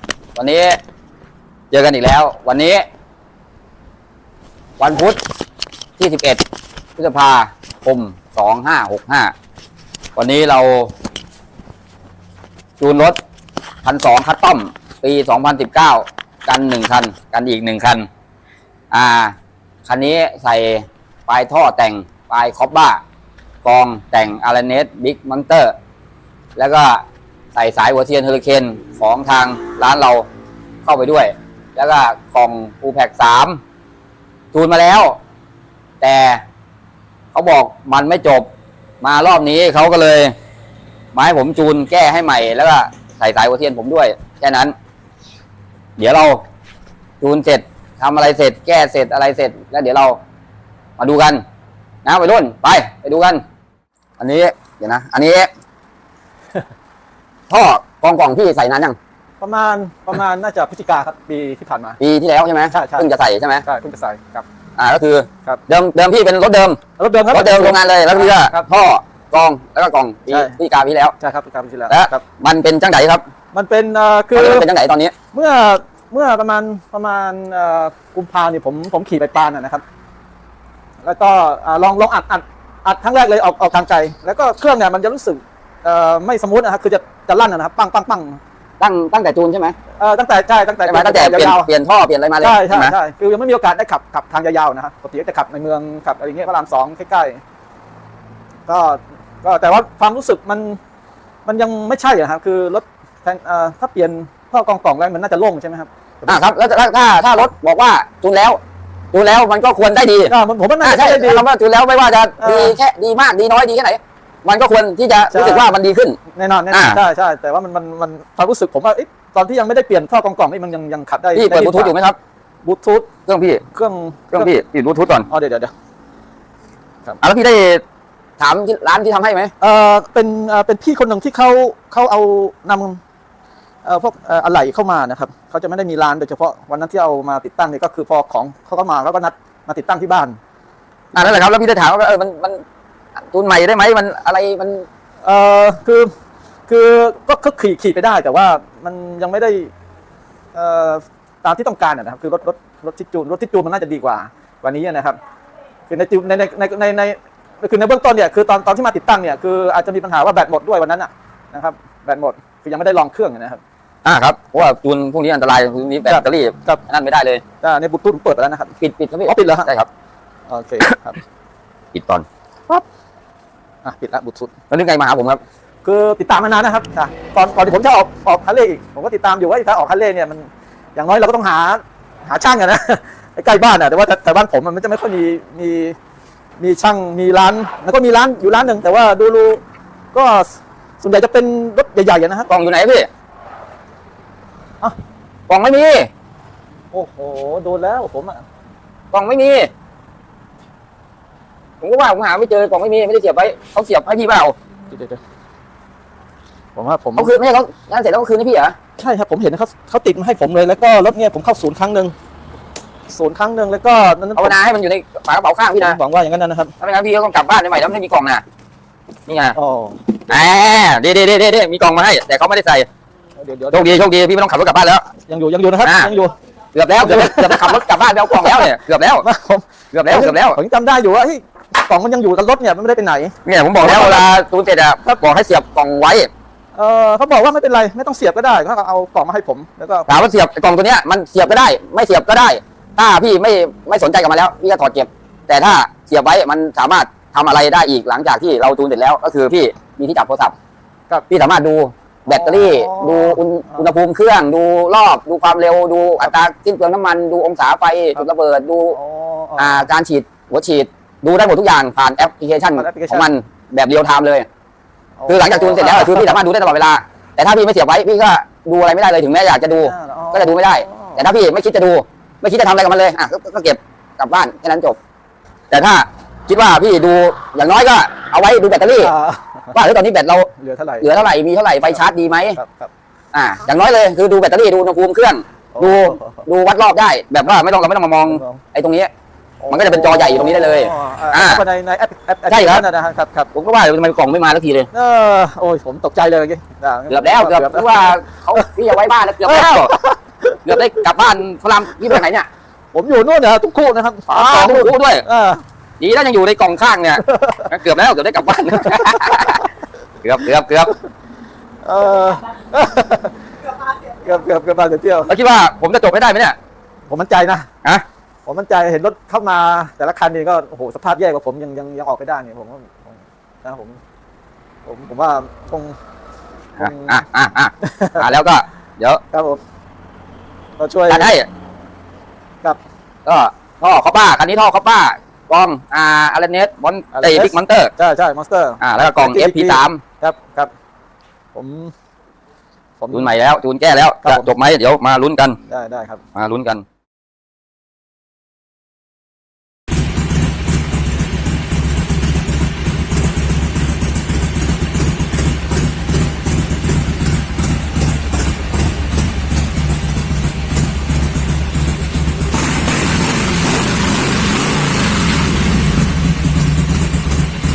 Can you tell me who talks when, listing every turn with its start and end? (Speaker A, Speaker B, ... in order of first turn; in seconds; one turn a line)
Speaker A: 0.4-0.8
Speaker A: 1.7-2.9
Speaker A: 4.8-5.2
Speaker A: 6.0-6.4
Speaker A: 7.0-9.3
Speaker A: 10.2-10.9
Speaker A: 12.8-13.2
Speaker A: 13.8-18.1
Speaker A: 18.9-19.4
Speaker A: 19.9-23.0
Speaker A: 23.6-25.7
Speaker A: 26.6-27.0
Speaker A: 27.6-30.2
Speaker A: 30.8-33.6
Speaker A: 34.5-35.2
Speaker A: 36.0-36.4
Speaker A: 37.3-38.5
Speaker A: 39.0-40.3
Speaker A: 41.1-44.7
Speaker A: 46.0-46.4
Speaker A: 47.2-50.2
Speaker A: 51.0-51.4
Speaker A: 52.0-53.4
Speaker A: 54.2-55.5
Speaker A: 57.5-59.0
Speaker B: 59.4-62.0
Speaker A: 62.0-63.6
Speaker B: 62.7-63.1
Speaker B: 63.6-64.5
Speaker A: 64.8-66.8
Speaker B: 67.0-68.7
Speaker A: 67.3-71.2
Speaker B: 70.3-70.5
Speaker B: 71.2-72.2
Speaker A: 71.9-73.2
Speaker B: 73.5-74.7
Speaker A: 74.3-75.1
Speaker B: 75.3-79.8
Speaker B: 81.0-88.4
Speaker A: 88.8-89.8
Speaker B: 90.0-91.7
Speaker A: 90.8-92.9
Speaker B: 92.4-97.4
Speaker B: 98.7-100.8
Speaker B: 101.5-106.4
Speaker A: 106.3-108.6
Speaker A: 109.1-116.2
Speaker B: 110.3-111.5
Speaker B: 112.4-112.8
Speaker B: 115.3-115.7
Speaker B: 116.3-122.0
Speaker A: 116.7-117.0
Speaker A: 121.3-122.2
Speaker B: 122.6-123.1
Speaker A: 123.3-123.6
Speaker B: 123.7-124.5
Speaker A: 124.3-125.3
Speaker B: 125.3-125.7
Speaker A: 127.2-127.8
Speaker A: 128.4-129.5
Speaker B: 129.6-133.0
Speaker B: 133.8-140.4
Speaker A: 141.1-142.6
Speaker A: 143.3-144.9
Speaker B: 145.2-146.1
Speaker B: 146.7-149.7
Speaker B: 150.5-155.2
Speaker B: 155.9-163.6
Speaker A: 164.1-167.4
Speaker B: 166.1-166.8
Speaker B: 167.6-168.7
Speaker A: 168.8-169.9
Speaker B: 169.3-169.7
Speaker B: 170.5-171.2
Speaker A: 171.9-172.2
Speaker B: 173.8-174.5
Speaker A: 174.7-175.4
Speaker B: 175.8-186.0
Speaker B: 186.6-189.6
Speaker B: 190.1-192.5
Speaker A: 192.5-193.1
Speaker A: 195.5-196.1
Speaker B: 196.9-198.4
Speaker A: 199.1-199.7
Speaker A: 201.8-204.6
Speaker B: 204.9-205.2
Speaker B: 206.8-207.3
Speaker A: 207.2-208.8
Speaker B: 209.0-212.1
Speaker B: 213.1-214.6
Speaker A: 214.4-216.0
Speaker B: 215.8-216.7
Speaker A: 216.8-218.4
Speaker A: 219.3-219.6
Speaker B: 219.6-220.0
Speaker A: 220.3-222.9
Speaker B: 223.4-224.1
Speaker A: 223.7-225.1
Speaker B: 225.3-226.3
Speaker A: 225.8-226.1
Speaker A: 226.7-229.3
Speaker B: 227.0-234.3
Speaker A: 229.9-230.6
Speaker A: 233.4-236.3
Speaker B: 236.8-240.1
Speaker A: 240.1-250.6
Speaker A: 251.3-259.0
Speaker B: 252.3-253.9
Speaker B: 258.9-259.9
Speaker A: 259.6-264.5
Speaker B: 262.8-263.3
Speaker B: 265.2-266.4
Speaker A: 265.3-275.0
Speaker B: 269.8-271.3
Speaker A: 275.7-279.1
Speaker B: 279.0-279.8
Speaker A: 279.7-280.5
Speaker B: 280.6-281.3
Speaker A: 281.0-282.6
Speaker B: 281.9-282.9
Speaker A: 283.3-289.1
Speaker B: 285.7-286.4
Speaker B: 288.3-288.6
Speaker B: 289.6-293.5
Speaker A: 289.7-291.6
Speaker A: 292.5-292.9
Speaker A: 293.5-294.9
Speaker B: 294.9-298.7
Speaker A: 297.1-299.9
Speaker B: 299.4-301.1
Speaker A: 300.6-302.5
Speaker B: 302.9-305.6
Speaker A: 304.3-305.2
Speaker A: 306.0-309.7
Speaker B: 307.2-307.7
Speaker B: 308.9-309.6
Speaker A: 310.2-310.9
Speaker B: 311.8-313.4
Speaker B: 314.1-315.3
Speaker A: 315.2-316.6
Speaker B: 317.1-317.7
Speaker B: 318.5-324.0
Speaker B: 324.9-326.0
Speaker B: 326.8-327.2
Speaker A: 326.8-329.2
Speaker B: 327.8-328.4
Speaker B: 329.3-329.6
Speaker B: 330.8-331.3
Speaker A: 331.1-331.5
Speaker A: 333.3-337.9
Speaker B: 337.1-340.7
Speaker A: 338.8-340.0
Speaker B: 341.5-341.9
Speaker B: 343.0-343.3
Speaker A: 343.1-345.6
Speaker B: 344.2-344.5
Speaker B: 345.7-346.2
Speaker A: 346.4-346.8